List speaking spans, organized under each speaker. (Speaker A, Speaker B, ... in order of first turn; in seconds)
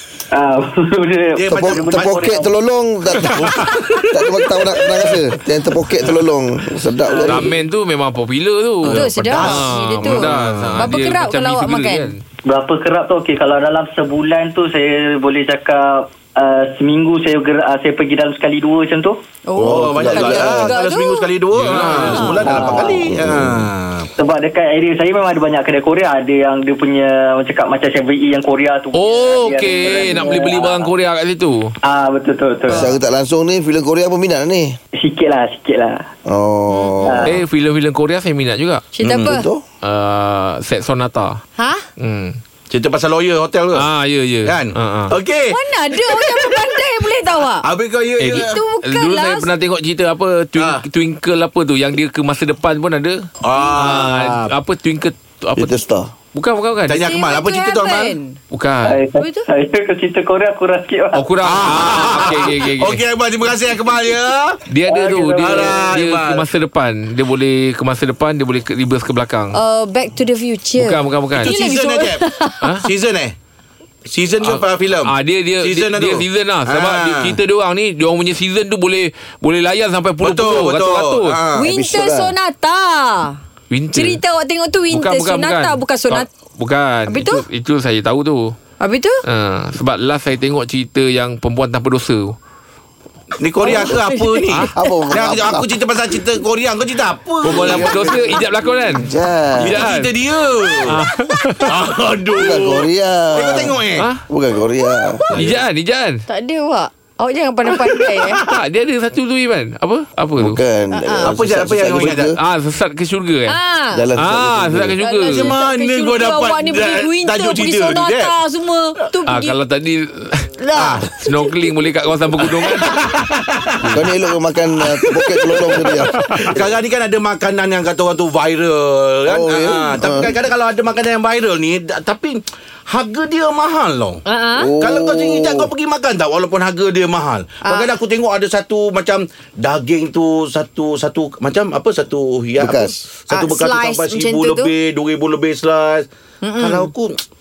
Speaker A: 0.3-2.5, 12.5-19.2, 22.4-23.0, 24.2-30.9, 31.8-32.9, 35.0-36.0, 37.0-37.3, 58.8-61.2, 65.0-65.6
Speaker B: 1.4-2.4, 3.2-4.1, 8.8-10.9, 19.6-24.1, 39.0-39.3, 42.7-43.9, 44.4-46.7, 47.6-48.6, 53.4-54.5, 56.9-58.1, 61.4-64.6, 65.4-66.4, 71.4-72.2, 72.8-73.3, 74.1-77.3, 80.2-81.7, 93.4-98.4, 99.6-101.0, 101.6-104.0, 105.3-105.6, 107.7-108.5, 111.2-112.3, 115.2-118.3, 120.7-121.0, 122.6-124.0, 124.9-134.2, 134.8-146.1, 146.6-147.2
Speaker C: 1.5-7.5, 19.6-20.8, 22.4-23.7, 32.7-34.8, 36.3-37.3, 39.1-39.6, 55.6-56.1, 81.6-82.3, 94.7-95.7, 97.5-98.2, 99.0-99.8, 102.3-103.8, 104.3-105.2, 110.4-112.4, 113.9-115.0, 123.9-126.6, 129.3-130.3, 134.6-135.7, 142.6-142.9
Speaker D: 7.2-12.2, 21.5-22.4, 28.9-31.7, 37.2-38.8, 39.8-41.4, 42.0-42.4, 43.7-45.1, 48.2-55.8, 56.3-57.0, 58.5-59.0, 61.1-63.0, 64.7-69.6, 70.8-71.5, 74.4-81.4, 83.7-84.2, 84.9-88.5, 89.2-92.3, 97.4-99.1, 99.6-100.1, 100.8-101.7, 104.0-104.2, 105.3-106.2, 108.4-110.6, 112.4-113.5, 114.2-115.5, 119.3-120.5, 121.2-122.9
Speaker E: 8.9-12.1, 19.4-21.3, 22.0-22.4, 36.7-37.2, 38.9-39.5, 41.6-41.9, 45.5-47.6, 48.2-49.5, 56.9-58.4, 59.2-59.5, 69.5-72.7, 81.5-83.4, 83.9-86.3, 87.1-87.4, 88.8-89.2, 93.6-94.5, 106.3-108.4, 110.9-111.3, 113.5-114.0, 115.0-119.5, 120.6-121.7, 134.2-134.7, 143.3-144.7, 146.4-146.9